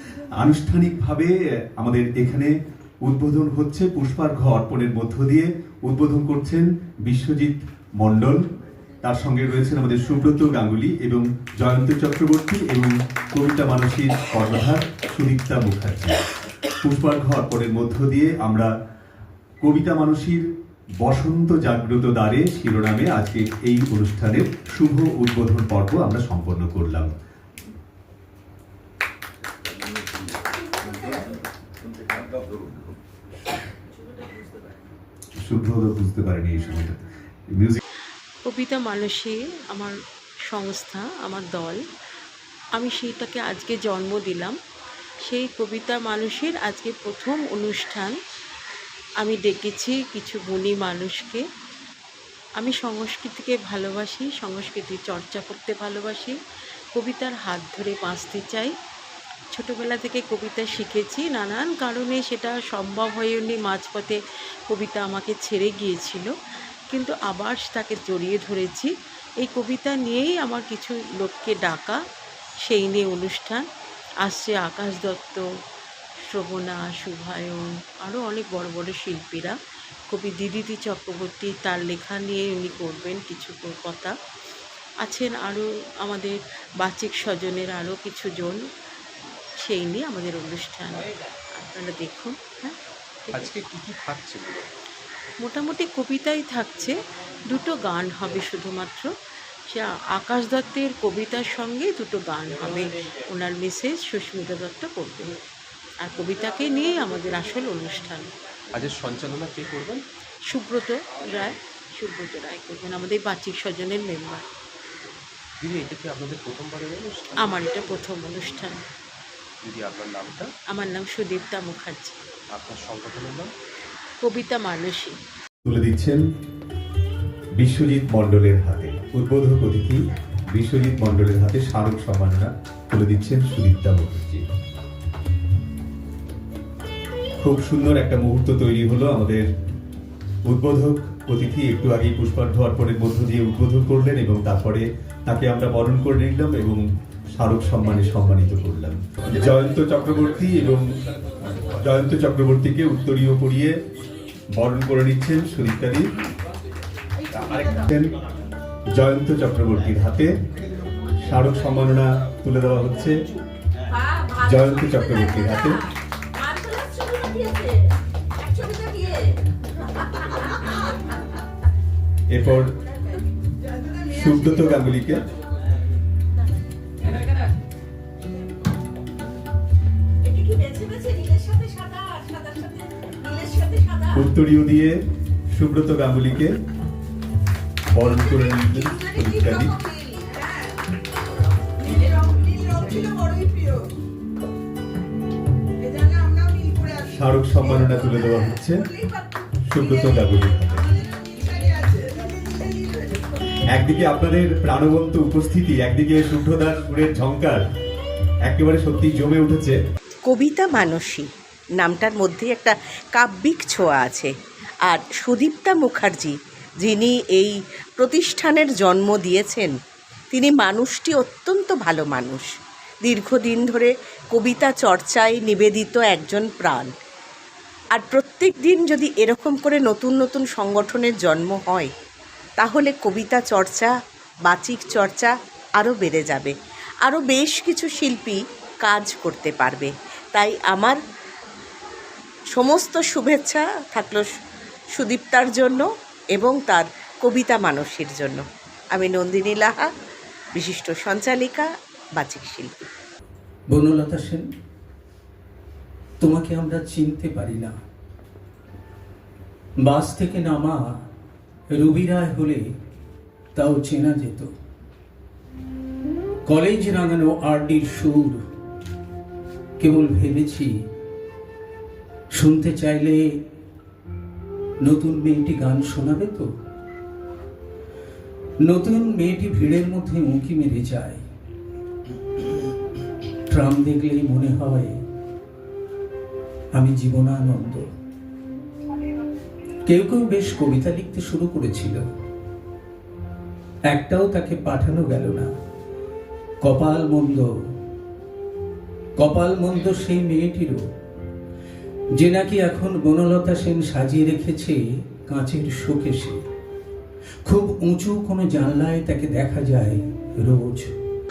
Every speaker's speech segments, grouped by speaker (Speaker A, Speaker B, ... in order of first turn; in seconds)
Speaker A: 0.4-2.5, 3.0-8.4, 9.0-16.2, 16.8-18.7, 19.6-20.4, 21.0-27.1, 35.4-37.8, 125.6-126.2, 127.6-130.0, 130.5-134.4, 137.4-139.5, 140.4-146.8, 147.3-150.9, 151.5-153.8, 154.5-156.1, 157.3-158.1, 158.9-160.3, 161.2-163.2, 164.4-165.8, 172.3-172.7, 174.1-175.2, 184.1-185.0, 185.5-186.6, 187.9-189.8, 197.1-198.9, 199.7-201.0, 203.7-207.6, 208.5-209.8
Speaker B: 38.4-40.0, 40.5-41.8, 42.8-44.5, 45.2-48.2, 49.2-51.4, 52.6-56.4, 56.9-58.7, 59.5-66.3, 66.9-72.0, 72.6-73.6, 74.2-75.4, 76.2-79.5, 80.1-84.1, 85.0-88.6, 89.6-92.8, 95.4-97.0, 97.5-99.1, 99.7-105.4, 106.0-108.3, 110.5-114.5, 117.4-118.8, 120.7-122.2, 124.2-125.2
Speaker C: 93.3-94.7, 108.8-110.0, 115.6-117.4, 119.7-120.5, 122.5-123.5, 201.8-202.5
Speaker D: 164.9-165.7, 166.3-167.9, 168.4-169.3, 180.2-184.2, 189.2-190.2, 192.5-193.5, 210.2-214.3, 214.9-219.7, 220.3-222.4, 223.0-226.9, 227.9-231.9, 232.6-233.9, 234.5-236.5, 237.0-241.0, 242.5-244.3, 245.0-249.9, 250.6-252.9
Speaker E: 253.7-254.5, 256.2-257.8, 259.8-260.9, 261.7-262.6, 263.5-264.5, 266.4-268.4, 269.8-270.7, 272.3-273.3, 274.8-276.5, 278.6-281.2, 283.5-285.0, 286.7-287.9, 289.8-292.0, 293.9-295.5, 296.6-297.5, 299.1-300.8, 302.1-306.4, 307.4-310.9